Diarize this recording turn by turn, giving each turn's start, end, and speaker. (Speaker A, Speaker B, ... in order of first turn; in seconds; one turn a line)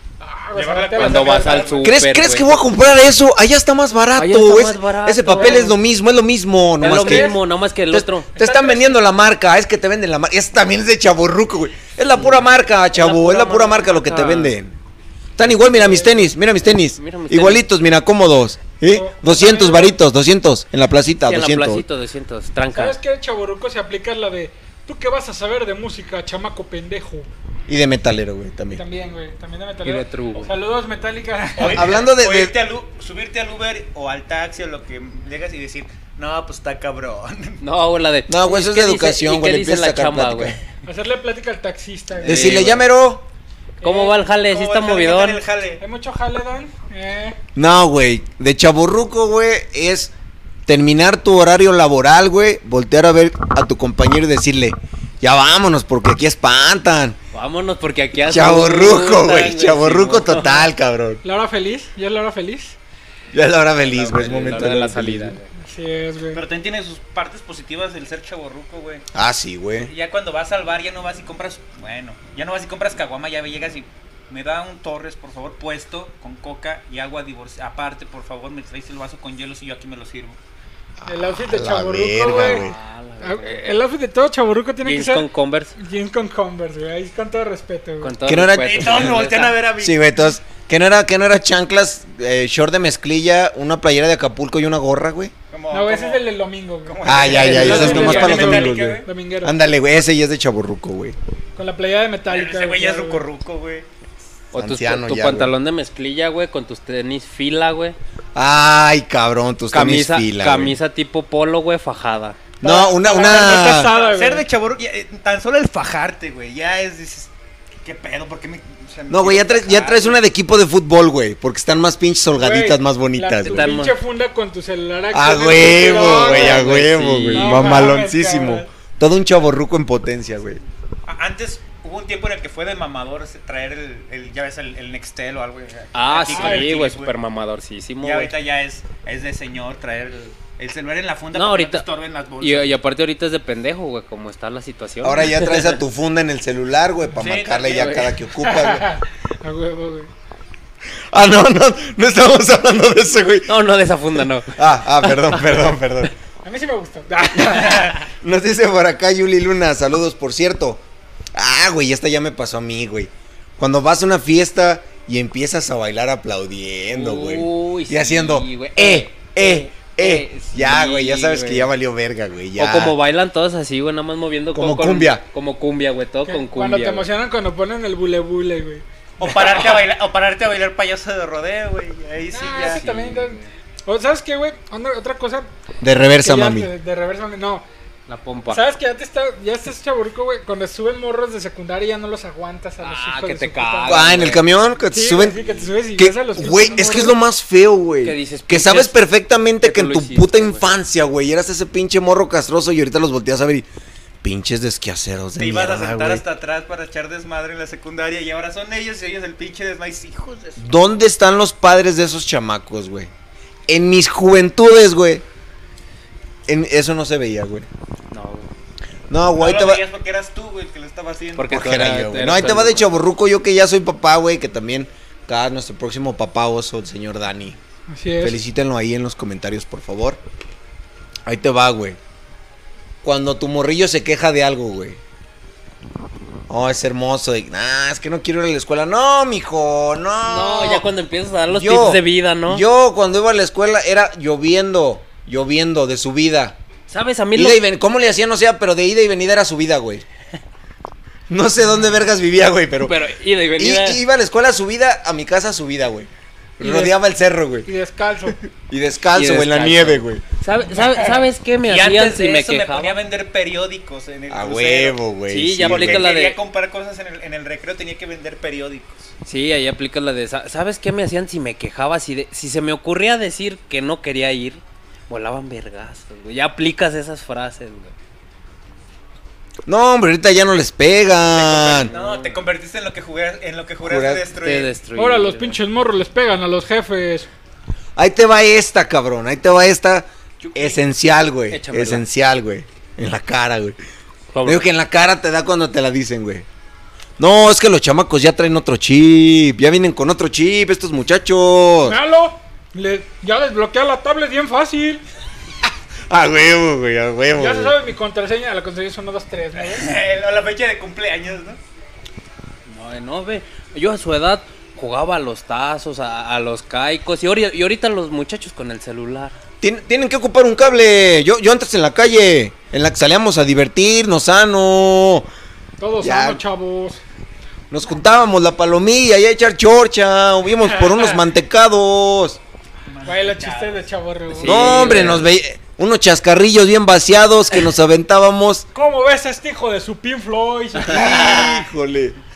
Speaker A: 0.2-1.9
Speaker B: 0.5-1.9
Speaker C: 0.9-2.8
Speaker D: 1.8-7.4
Speaker C: 4.2-5.8
Speaker A: 5.3-5.7
Speaker C: 6.8-8.3
Speaker A: 6.8-7.4
Speaker D: 7.9-14.8
Speaker A: 8.3-9.0
Speaker C: 12.1-14.5
Speaker D: 15.4-21.8
Speaker C: 15.4-17.6
Speaker A: 18.9-20.0
Speaker C: 21.2-23.0
Speaker A: 22.7-27.3
Speaker D: 27.7-28.8
Speaker A: 28.7-31.9
Speaker C: 29.8-30.5
Speaker B: 31.6-37.6
Speaker D: 31.6-32.5
Speaker C: 37.6-40.6
Speaker D: 38.3-40.6
Speaker A: 40.9-42.8
Speaker C: 42.2-42.9
Speaker D: 42.2-43.3
Speaker A: 43.8-44.2
Speaker C: 43.8-45.4
Speaker B: 44.2-45.8
Speaker A: 45.8-47.4
Speaker D: 47.5-50.1
Speaker D: 50.7-57.2
Speaker C: 57.3-60.7
Speaker D: 58.1-61.2
Speaker A: 61.2-62.8
Speaker D: 63.3-65.4
Speaker C: 63.8-65.5
Speaker A: 65.6-66.4
Speaker B: 66.3-69.0
Speaker D: 69.1-69.9
Speaker B: 69.8-80.4
Speaker D: 81.0-82.8
Speaker A: 81.0-82.7
Speaker C: 82.3-83.7
Speaker A: 83.2-88.1
Speaker C: 84.8-85.7
Speaker C: 88.0-89.6
Speaker D: 88.2-95.3
Speaker B: 88.6-90.0
Speaker B: 95.5-96.3
Speaker A: 95.7-99.5
Speaker B: 96.8-99.1
Speaker D: 97.0-101.2
Speaker C: 97.3-98.5
Speaker A: 101.5-103.3
Speaker B: 102.3-103.9
Speaker C: 104.5-108.0
Speaker D: 104.5-105.5
Speaker D: 108.3-110.8
Speaker C: 109.7-112.4
Speaker D: 112.6-113.9
Speaker A: 112.6-114.4
Speaker B: 113.2-117.3
Speaker B: 117.8-120.2
Speaker D: 119.1-123.7
Speaker A: 122.4-126.8
Speaker C: 123.4-124.0
Speaker D: 125.1-130.6
Speaker C: 125.8-127.9
Speaker A: 127.3-128.7
Speaker B: 131.1-137.1
Speaker C: 135.9-138.3
Speaker A: 136.3-136.7
Speaker B: 138.0-142.7
Speaker C: 141.3-141.9
Speaker C: 142.4-145.8
Speaker D: 145.0-148.9
Speaker B: 147.1-148.0
Speaker C: 147.7-148.1
Speaker A: 148.4-150.1
Speaker D: 151.1-153.6
Speaker C: 153.5-155.6
Speaker D: 154.2-156.1
Speaker A: 156.4-158.0
Speaker D: 157.4-173.0
Speaker C: 166.9-171.7
Speaker C: 172.6-177.1
Speaker D: 174.5-175.2
Speaker A: 176.2-178.8
Speaker B: 179.2-182.8
Speaker A: 182.3-185.5
Speaker C: 182.5-183.5
Speaker D: 185.8-186.7
Speaker A: 186.2-187.6
Speaker C: 188.1-188.6
Speaker A: 188.5-194.1
Speaker C: 192.8-194.7
Speaker D: 193.8-195.4
Speaker A: 194.9-197.2
Speaker D: 195.9-203.7
Speaker C: 198.0-199.0
Speaker C: 199.6-200.7
Speaker D: 204.2-206.2
Speaker B: 205.4-210.8
Speaker D: 210.6-213.1
Speaker D: 213.7-215.2
Speaker D: 216.5-217.7
Speaker C: 218.1-218.5
Speaker D: 219.1-219.8
Speaker B: 219.4-221.6
Speaker C: 221.3-222.9
Speaker D: 221.5-227.6
Speaker A: 227.9-228.4
Speaker D: 228.2-230.2
Speaker D: 231.2-232.0
Speaker D: 233.0-235.0
Speaker D: 236.5-240.9
Speaker C: 240.2-242.6
Speaker D: 241.5-246.6
Speaker C: 246.9-247.6
Speaker D: 247.3-250.0
Speaker D: 251.3-253.0
Speaker C: 252.8-254.0
Speaker D: 253.6-257.7
Speaker A: 256.6-256.9
Speaker A: 257.6-258.4
Speaker D: 258.2-260.2
Speaker C: 259.1-263.0
Speaker B: 261.6-265.0
Speaker D: 264.3-266.1
Speaker C: 265.3-266.4
Speaker B: 265.6-269.1
Speaker C: 269.2-277.9
Speaker D: 279.7-281.9
Speaker B: 281.3-284.7
Speaker C: 281.8-282.4
Speaker D: 283.8-284.3
Speaker C: 284.4-285.6
Speaker A: 284.9-287.3
Speaker D: 287.9-293.8
Speaker B: 290.4-290.8
Speaker C: 291.5-292.0
Speaker C: 294.3-294.6
Speaker D: 294.4-296.4
Speaker D: 297.2-302.0
Speaker A: 301.8-305.0
Speaker D: 305.6-307.8
Speaker A: 307.3-309.9
Speaker B: 309.6-311.6
Speaker C: 312.7-319.3
Speaker D: 319.6-325.3
Speaker A: 325.8-327.0
Speaker D: 326.0-326.4
Speaker D: 327.7-332.4
Speaker A: 330.8-331.1
Speaker B: 332.9-333.9
Speaker A: 333.0-335.2
Speaker C: 334.3-335.2
Speaker D: 334.4-338.6
Speaker A: 338.7-341.6
Speaker D: 340.9-342.1